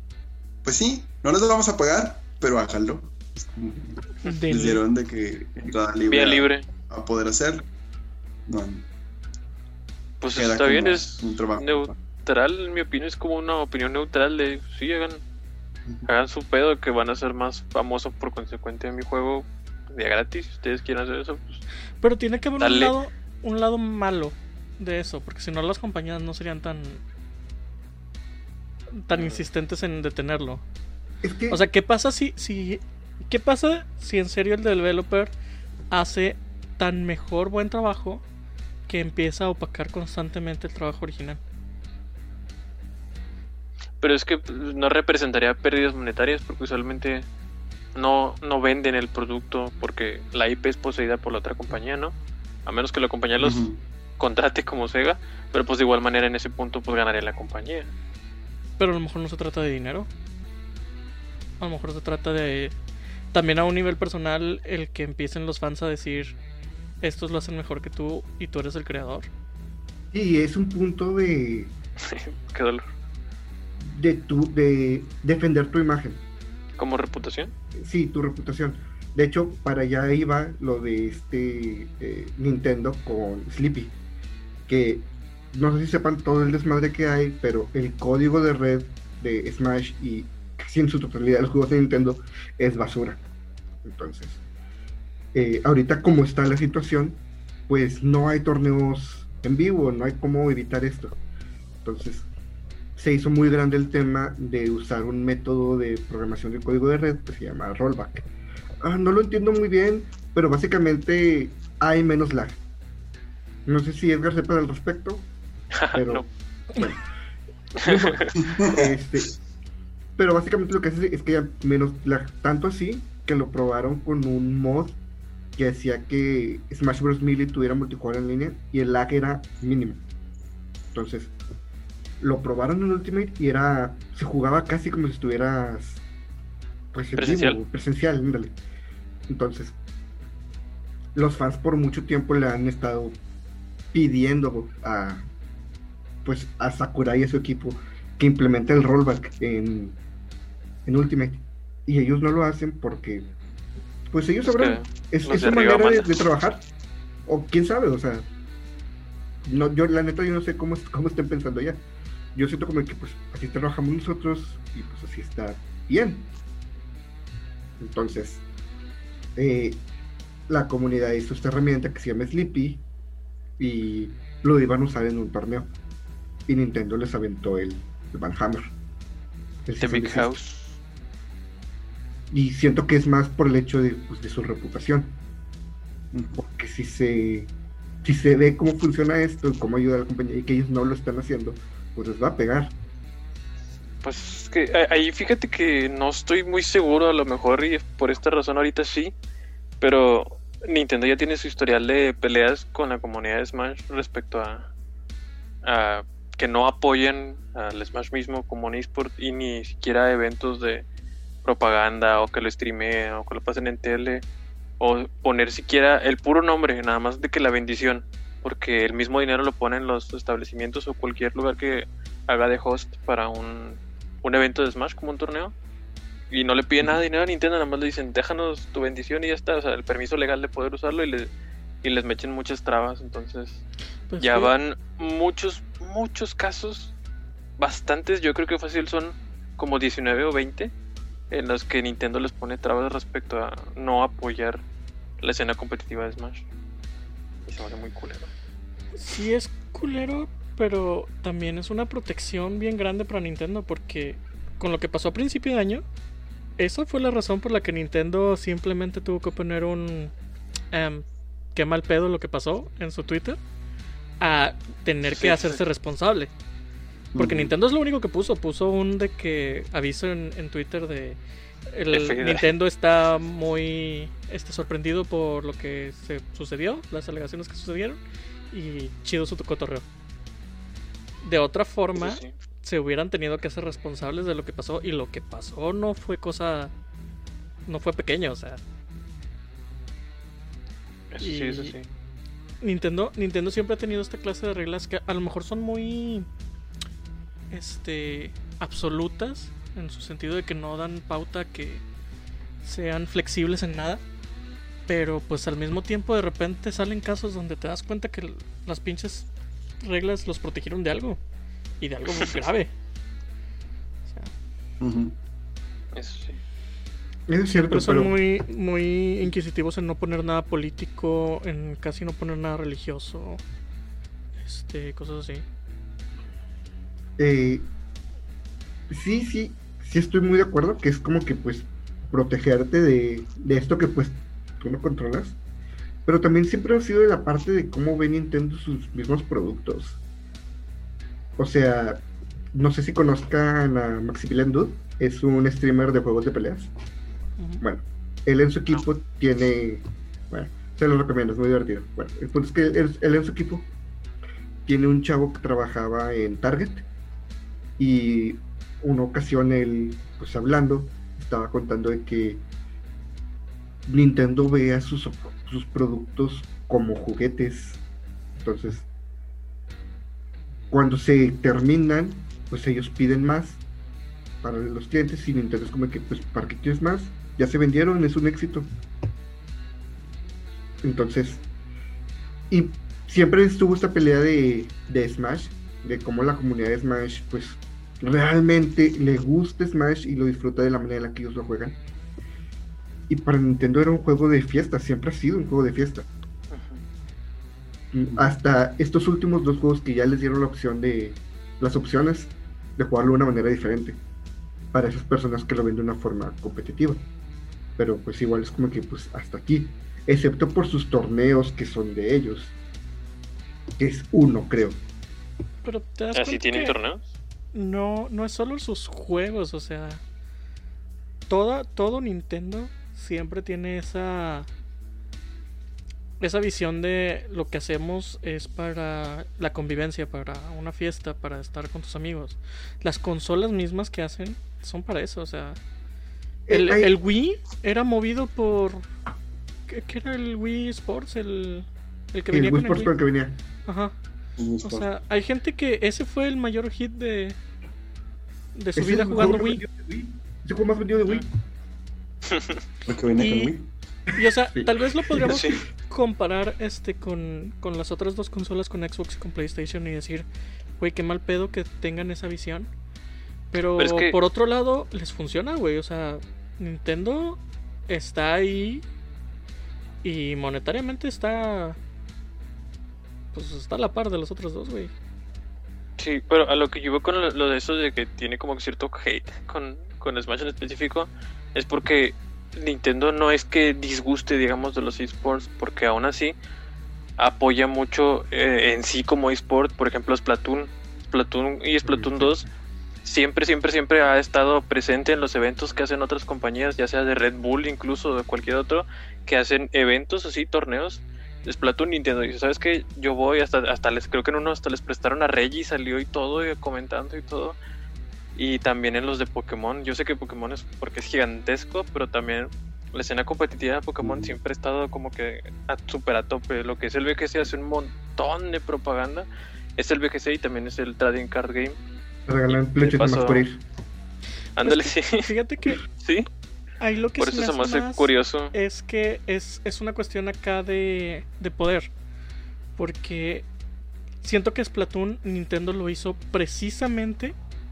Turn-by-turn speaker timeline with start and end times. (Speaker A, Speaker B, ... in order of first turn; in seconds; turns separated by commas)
Speaker A: 0.6-7.6, Speaker B: 4.2-4.8, Speaker C: 6.1-6.7, Speaker A: 8.5-8.8, Speaker C: 10.2-15.2, Speaker A: 10.3-11.9, Speaker C: 16.1-21.6, Speaker B: 22.0-27.0, Speaker C: 22.6-22.9, Speaker B: 28.9-30.6, Speaker C: 29.1-29.4, Speaker D: 31.2-31.6, Speaker B: 31.5-35.3, Speaker B: 35.9-38.2, Speaker B: 38.9-41.4, Speaker C: 44.0-47.3, Speaker C: 47.9-53.7, Speaker A: 53.4-53.8, Speaker C: 54.2-57.9, Speaker B: 58.8-60.1, Speaker B: 61.6-62.7, Speaker B: 63.3-66.3, Speaker B: 67.0-69.3, Speaker D: 70.1-71.7, Speaker C: 72.0-72.8, Speaker D: 73.8-76.2, Speaker C: 76.8-77.5, Speaker D: 77.7-84.0, Speaker D: 84.7-93.2, Speaker D: 93.8-94.4, Speaker D: 95.3-101.2, Speaker D: 101.8-102.3, Speaker D: 103.0-108.3, Speaker D: 108.8-112.6, Speaker D: 113.7-115.3, Speaker C: 115.8-116.2, Speaker D: 115.9-117.0, Speaker C: 117.8-118.3, Speaker D: 117.8-119.3, Speaker A: 118.4-118.9, Speaker D: 120.2-125.0, Speaker D: 125.5-130.0, Speaker D: 130.9-131.3, Speaker D: 132.2-136.0, Speaker D: 136.9-138.6, Speaker C: 137.2-137.6, Speaker D: 139.3-139.8, Speaker D: 141.1-143.2, Speaker D: 143.9-145.3, Speaker D: 146.2-150.0, Speaker D: 150.8-153.3, Speaker D: 154.1-156.6, Speaker C: 154.4-156.1, Speaker D: 157.2-158.3, Speaker D: 159.4-161.8, Speaker D: 162.3-166.3, Speaker D: 167.8-168.4, Speaker D: 169.3-169.8, Speaker D: 170.5-172.8, Speaker D: 173.6-175.7, Speaker D: 176.5-178.7, Speaker D: 179.7-180.3, Speaker C: 179.8-180.8, Speaker D: 182.3-185.2, Speaker A: 186.1-186.4, Speaker D: 186.4-187.5, Speaker D: 188.0-192.8, Speaker C: 194.0-199.1, Speaker C: 199.8-204.7, Speaker C: 205.6-210.8, Speaker C: 211.4-214.2, Speaker C: 214.8-225.5, Speaker C: 226.3-231.3, Speaker C: 231.8-233.6, Speaker B: 234.1-234.5, Speaker C: 234.2-236.9, Speaker C: 237.6-240.7, Speaker C: 241.3-244.6, Speaker C: 245.2-246.4, Speaker C: 247.5-248.3, Speaker B: 248.9-255.8, Speaker B: 256.6-260.1, Speaker B: 260.7-263.4, Speaker B: 264.2-266.3, Speaker C: 265.1-265.6, Speaker A: 267.1-267.5, Speaker B: 267.1-271.2, Speaker B: 271.7-278.0, Speaker C: 271.9-272.5, Speaker B: 278.5-279.8, Speaker B: 281.2-286.7, Speaker C: 281.9-282.3, Speaker B: 287.7-288.6, Speaker C: 291.1-291.8, Speaker B: 291.2-291.7, Speaker B: 292.6-296.3, Speaker B: 297.5-301.8, Speaker B: 302.6-304.0, Speaker B: 304.9-309.3, Speaker B: 309.8-311.2, Speaker B: 311.8-312.7, Speaker B: 314.1-314.3, Speaker A: 314.8-315.1, Speaker C: 315.9-316.4, Speaker D: 317.3-318.2, Speaker B: 317.7-323.4, Speaker B: 324.4-325.4, Speaker D: 327.2-327.7, Speaker D: 328.9-335.4, Speaker D: 336.1-340.0, Speaker D: 341.4-342.0, Speaker D: 342.5-346.7, Speaker B: 347.4-347.6, Speaker D: 347.6-353.7, Speaker D: 354.6-356.9, Speaker D: 357.8-362.4, Speaker D: 363.9-367.8, Speaker D: 368.4-368.9, Speaker D: 370.7-373.6, Speaker D: 374.4-378.7, Speaker D: 380.8-381.4, Speaker D: 382.5-391.8, Speaker D: 393.1-396.1, Speaker C: 396.5-396.8, Speaker D: 397.9-404.0, Speaker D: 404.7-407.0, Speaker D: 407.8-412.5, Speaker D: 413.8-414.8, Speaker B: 415.6-416.8, Speaker C: 416.1-417.1, Speaker B: 417.5-420.0, Speaker B: 421.3-424.5, Speaker B: 426.2-435.6, Speaker D: 436.5-436.9, Speaker B: 436.5-438.9, Speaker B: 439.7-442.9, Speaker D: 442.3-443.4, Speaker B: 443.6-443.9, Speaker A: 444.4-444.9, Speaker B: 444.6-447.4, Speaker B: 448.5-449.6, Speaker D: 448.7-451.2, Speaker C: 452.3-452.6, Speaker A: 452.9-453.7, Speaker B: 453.1-453.5, Speaker B: 454.1-460.3, Speaker D: 454.2-455.4, Speaker C: 455.2-455.6, Speaker B: 460.8-462.7, Speaker B: 463.5-468.8, Speaker C: 463.8-464.1, Speaker B: 470.0-471.8, Speaker B: 473.3-474.9, Speaker C: 476.0-486.3, Speaker C: 487.2-492.4, Speaker D: 491.8-492.5, Speaker C: 493.0-507.6, Speaker C: 508.4-521.8, Speaker D: 522.3-523.6, Speaker C: 522.5-523.5, Speaker C: 524.6-525.3, Speaker B: 524.6-525.8, Speaker C: 526.0-526.3, Speaker B: 526.8-531.9, Speaker C: 527.2-528.5, Speaker B: 532.8-533.5, Speaker B: 534.2-537.4